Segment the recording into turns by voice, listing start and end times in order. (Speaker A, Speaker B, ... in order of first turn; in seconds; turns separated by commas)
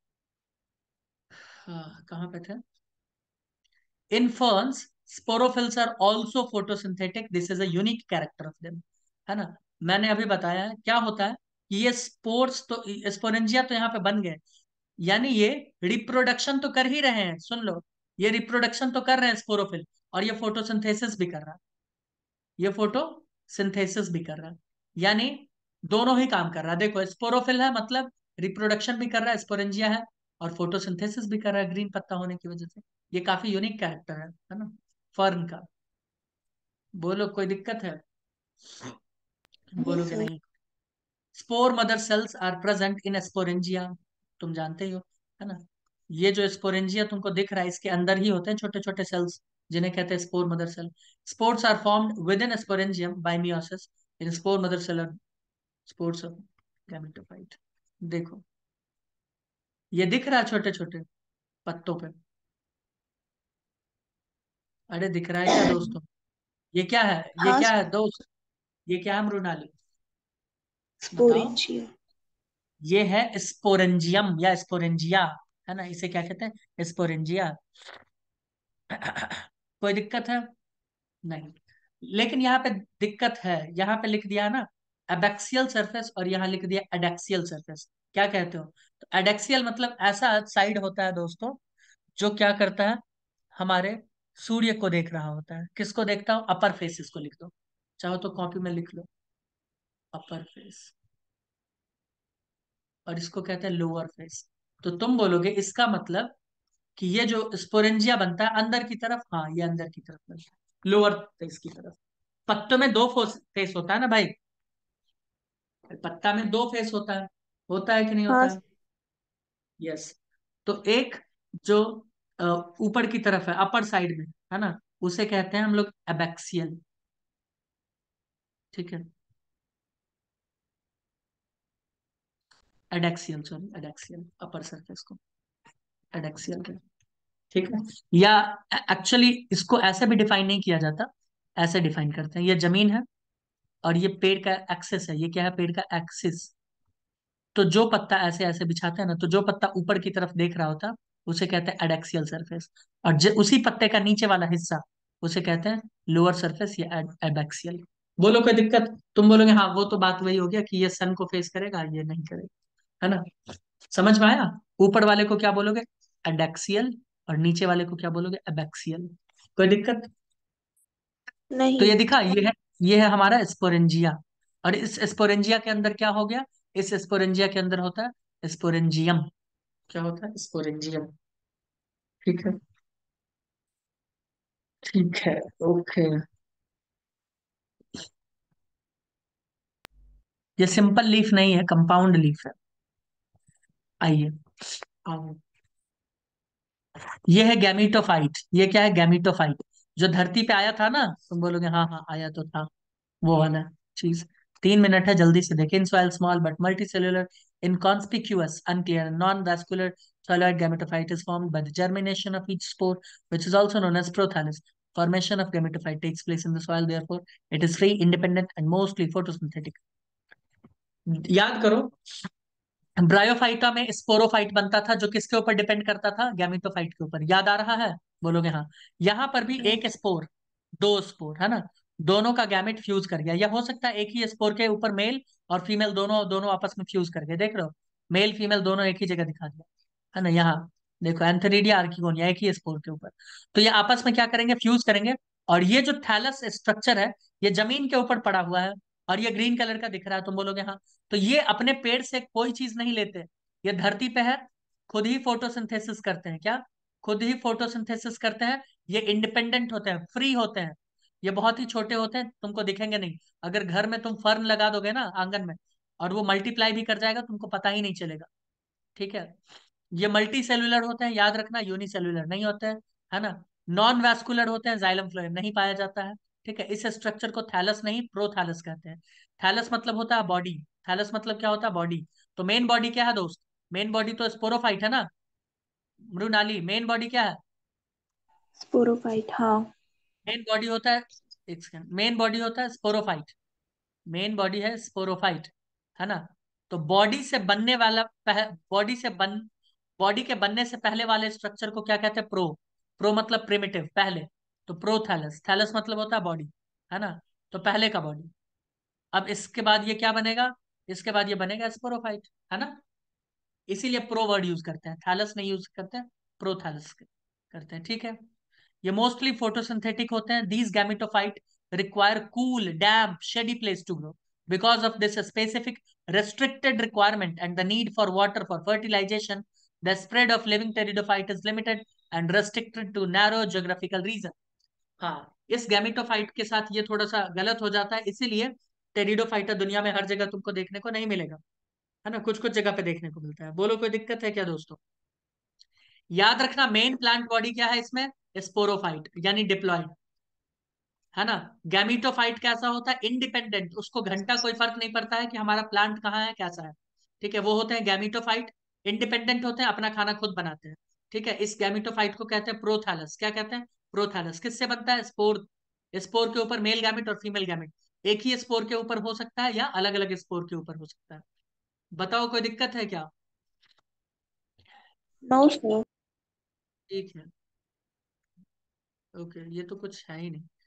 Speaker A: 1.6-2.6, Speaker A: 4.1-14.4, Speaker A: 15.0-21.6, Speaker A: 22.6-35.6, Speaker A: 37.0-38.0, Speaker A: 39.7-40.5, Speaker B: 39.8-40.3, Speaker A: 41.3-55.2, Speaker A: 55.9-58.4, Speaker A: 59.9-61.0, Speaker A: 61.6-62.1, Speaker A: 64.9-66.0, Speaker B: 65.5-65.9, Speaker A: 66.7-68.3, Speaker B: 67.4-67.7, Speaker A: 68.9-69.7, Speaker B: 71.0-71.9, Speaker A: 71.1-71.6, Speaker A: 72.8-77.5, Speaker A: 78.9-80.5, Speaker A: 81.2-91.6, Speaker A: 92.2-93.0, Speaker A: 93.5-99.1, Speaker A: 100.1-100.9, Speaker A: 103.1-106.3, Speaker A: 107.0-114.3, Speaker A: 115.9-118.6, Speaker B: 118.3-118.6, Speaker A: 119.8-126.8, Speaker A: 128.7-129.1, Speaker A: 132.9-135.2, Speaker A: 136.1-136.8, Speaker A: 137.5-143.1, Speaker A: 143.8-146.5, Speaker A: 147.5-162.5, Speaker A: 163.0-163.3, Speaker A: 163.9-170.1, Speaker B: 171.5-172.0, Speaker A: 171.8-179.3, Speaker A: 179.9-181.1, Speaker A: 182.2-182.6, Speaker A: 184.8-186.2, Speaker A: 190.6-192.5, Speaker A: 194.0-195.4, Speaker A: 197.3-202.7, Speaker A: 203.2-219.8, Speaker A: 221.1-221.9, Speaker A: 223.0-268.3, Speaker A: 268.9-269.4, Speaker A: 269.9-285.1, Speaker A: 286.1-287.4, Speaker B: 288.6-289.7, Speaker A: 290.3-293.3, Speaker A: 294.1-299.5, Speaker A: 300.0-308.3, Speaker A: 309.1-312.8, Speaker A: 313.7-318.2, Speaker A: 318.8-334.3, Speaker A: 335.0-341.4, Speaker A: 342.0-344.8, Speaker A: 346.1-349.9, Speaker A: 351.1-371.2, Speaker A: 371.9-373.1, Speaker B: 375.2-375.8, Speaker A: 376.9-377.3, Speaker A: 379.1-380.5